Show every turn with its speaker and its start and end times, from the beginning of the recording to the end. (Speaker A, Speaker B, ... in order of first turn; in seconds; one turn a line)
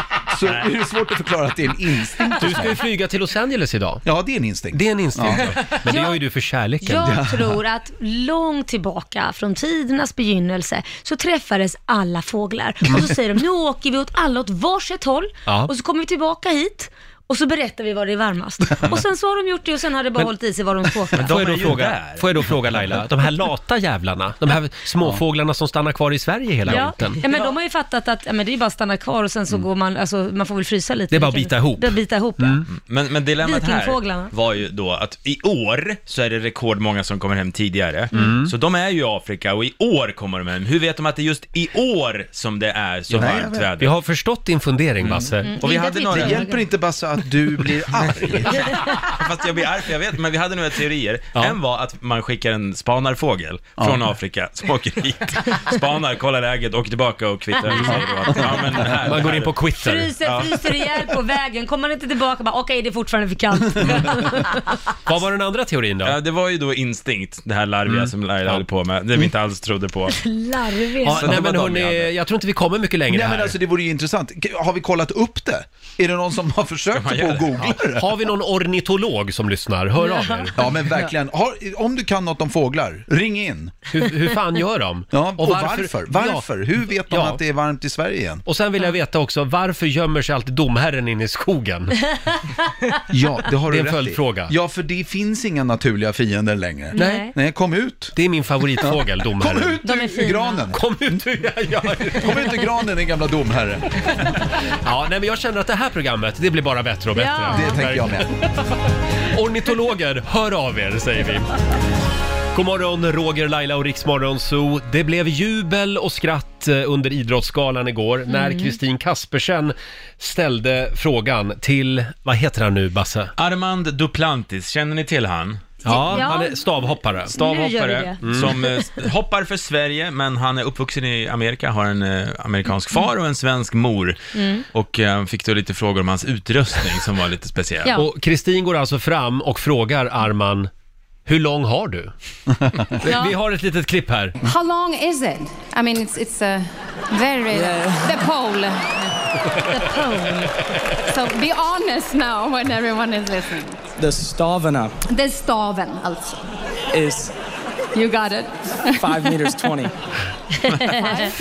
Speaker A: 0.3-2.8
Speaker B: 2.4-4.0
Speaker A: 4.0-5.5
Speaker B: 4.7-7.2
Speaker C: 5.9-6.2
Speaker C: 6.8-21.3
Speaker A: 7.0-7.6
Speaker D: 21.1-22.7
Speaker B: 21.2-27.2
Speaker C: 26.7-32.7
Speaker B: 31.1-32.7
Speaker D: 32.7-44.0
Speaker C: 33.4-34.3
Speaker B: 38.1-38.5
Speaker A: 43.1-43.7
Speaker B: 43.8-45.5
Speaker C: 45.5-46.6
Speaker D: 45.6-46.4
Speaker A: 46.1-48.9
Speaker D: 48.7-59.6
Speaker C: 57.7-58.4
Speaker B: 59.0-60.1
Speaker C: 59.8-64.8
Speaker D: 60.2-60.5
Speaker B: 65.1-66.2
Speaker D: 66.0-70.2
Speaker B: 67.9-68.6
Speaker C: 70.1-71.3
Speaker B: 71.0-73.6
Speaker D: 71.1-72.1
Speaker A: 73.1-78.1
Speaker D: 76.9-77.5
Speaker B: 77.6-80.6
Speaker C: 80.0-80.6
Speaker A: 80.6-83.8
Speaker B: 83.9-87.4
Speaker A: 85.1-88.4
Speaker B: 88.5-92.1
Speaker A: 93.1-98.2
Speaker B: 93.7-94.5
Speaker C: 96.9-97.3
Speaker B: 97.0-97.2
Speaker B: 98.2-99.8
Speaker A: 98.8-101.3
Speaker C: 99.8-100.7
Speaker B: 100.7-102.7
Speaker A: 102.0-104.3
Speaker B: 104.7-108.7
Speaker C: 107.2-107.8
Speaker A: 107.5-108.3
Speaker B: 109.3-111.5
Speaker B: 112.5-123.3
Speaker C: 118.3-118.8
Speaker D: 123.4-125.8
Speaker C: 125.8-126.7
Speaker B: 125.8-128.6
Speaker C: 127.3-128.9
Speaker D: 128.3-137.9
Speaker C: 134.3-134.7
Speaker B: 137.9-140.7
Speaker B: 141.3-142.1
Speaker B: 143.0-144.4
Speaker C: 143.1-143.3
Speaker E: 144.4-149.1
Speaker F: 147.5-148.3
Speaker C: 149.7-150.5
Speaker E: 151.1-153.9
Speaker F: 154.0-154.9
Speaker E: 155.1-156.5
Speaker F: 156.9-157.3
Speaker E: 157.9-159.0
Speaker F: 159.0-159.9
Speaker C: 160.5-161.3
Speaker E: 161.0-161.3